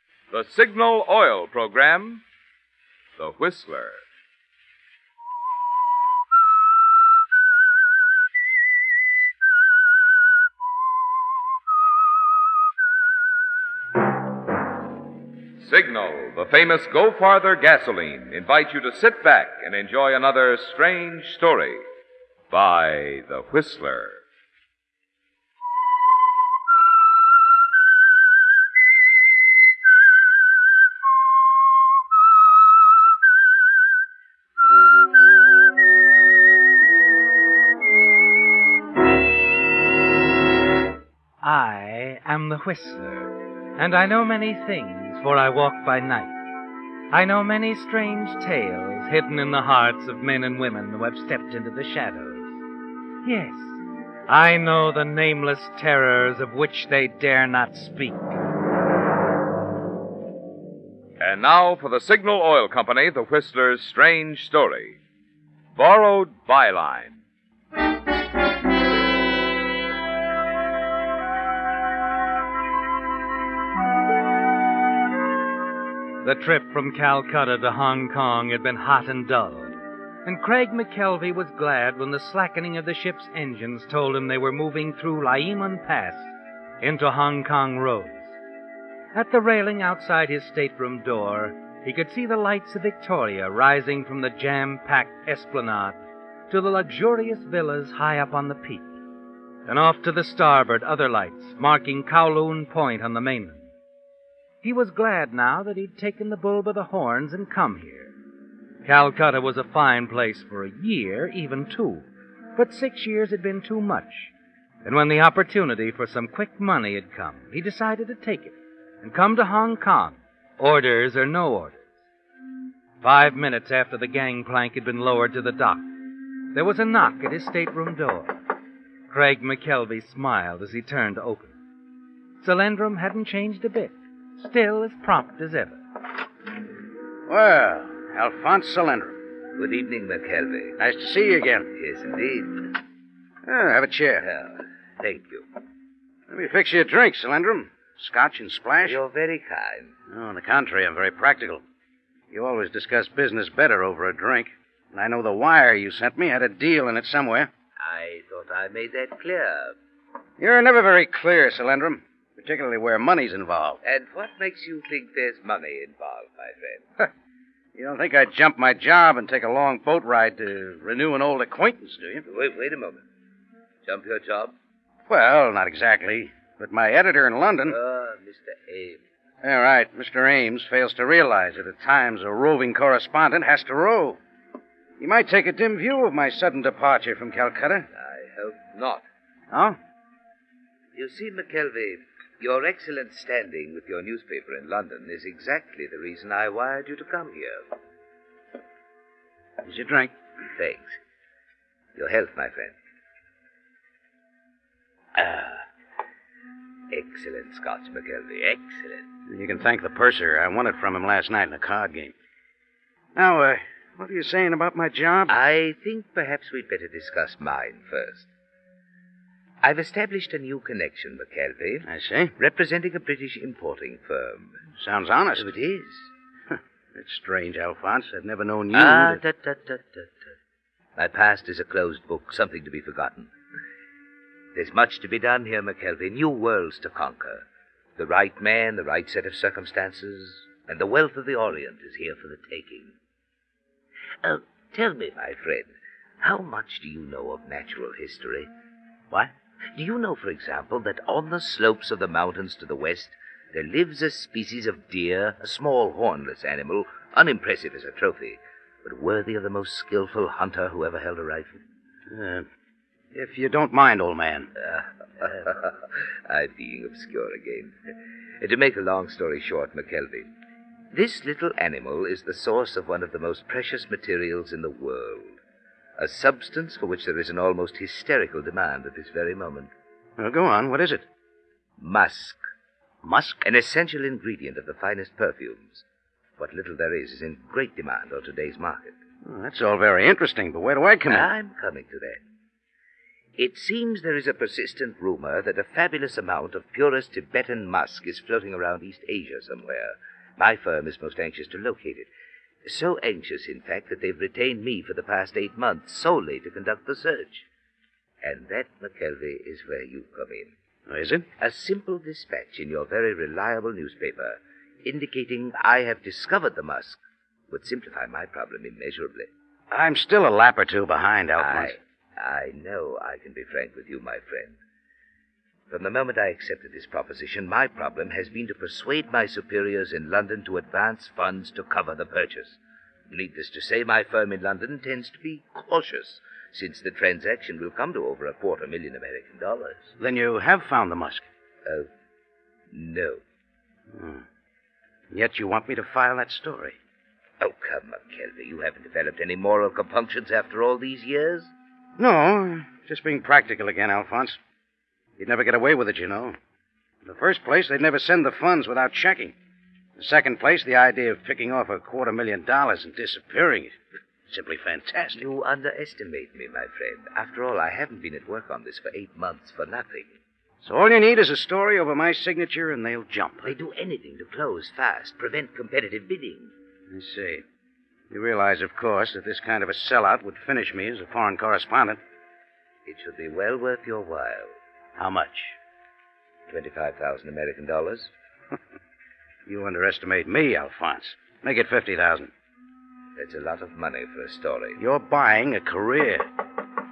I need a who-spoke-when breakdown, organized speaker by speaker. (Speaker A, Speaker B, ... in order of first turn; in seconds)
Speaker A: 0.3-2.2, 3.2-4.0, 15.6-21.8, 22.5-24.2, 61.2-65.0, 65.8-67.2
Speaker B: 41.4-46.3, 47.1-52.5, 53.2-58.4, 76.2-88.3, 89.1-96.0, 96.5-99.0, 99.7-103.7, 104.6-108.1, 108.8-114.3, 114.8-121.8, 123.0-125.9, 126.5-128.4, 129.1-131.6, 132.4-135.8
Speaker C: 137.3-139.2, 140.8-141.7, 143.5-144.3, 146.3-149.0, 150.1-151.6, 152.3-157.5, 160.4-163.8, 167.8-172.2, 175.1-177.8, 179.4-184.2, 185.0-187.9, 189.5-189.8, 199.6-200.1, 209.3-212.1, 213.2-215.4, 221.8-222.3, 224.8-225.5, 226.5-229.2, 262.1-262.5, 263.1-264.5, 280.2-281.1, 283.0-283.4, 289.2-291.3, 310.9-311.3, 319.7-321.8, 340.0-341.3, 343.9-344.2, 345.1-346.8, 352.0-354.4, 355.2-356.4, 357.0-359.4, 360.0-363.8, 364.3-365.2, 370.6-373.5, 376.9-377.4, 378.1-382.0, 385.0-385.6, 389.5-392.3, 394.8-396.3
Speaker D: 139.6-140.8, 141.7-142.7, 144.2-145.4, 148.8-149.9, 157.8-159.8, 163.8-166.9, 172.3-173.0, 173.8-174.5, 177.7-179.0, 187.9-189.0, 190.9-197.7, 200.6-201.0, 201.9-202.8, 205.2-205.5, 206.9-209.1, 215.3-218.3, 219.6-221.9, 222.4-224.6, 225.3-226.1, 228.7-230.1, 231.0-233.3, 234.6-237.4, 238.0-242.9, 244.2-248.5, 249.8-261.6, 264.6-267.7, 268.4-270.3, 270.9-275.4, 276.0-279.7, 281.8-282.4, 283.4-285.9, 286.4-288.9, 291.1-292.2, 293.4-302.1, 302.6-307.4, 308.2-310.5, 311.4-317.0, 317.5-319.3, 321.4-324.6, 325.7-339.9, 342.7-343.2, 347.4-351.5, 365.2-370.1, 373.4-376.5, 382.9-384.5, 386.5-388.1, 393.2-394.8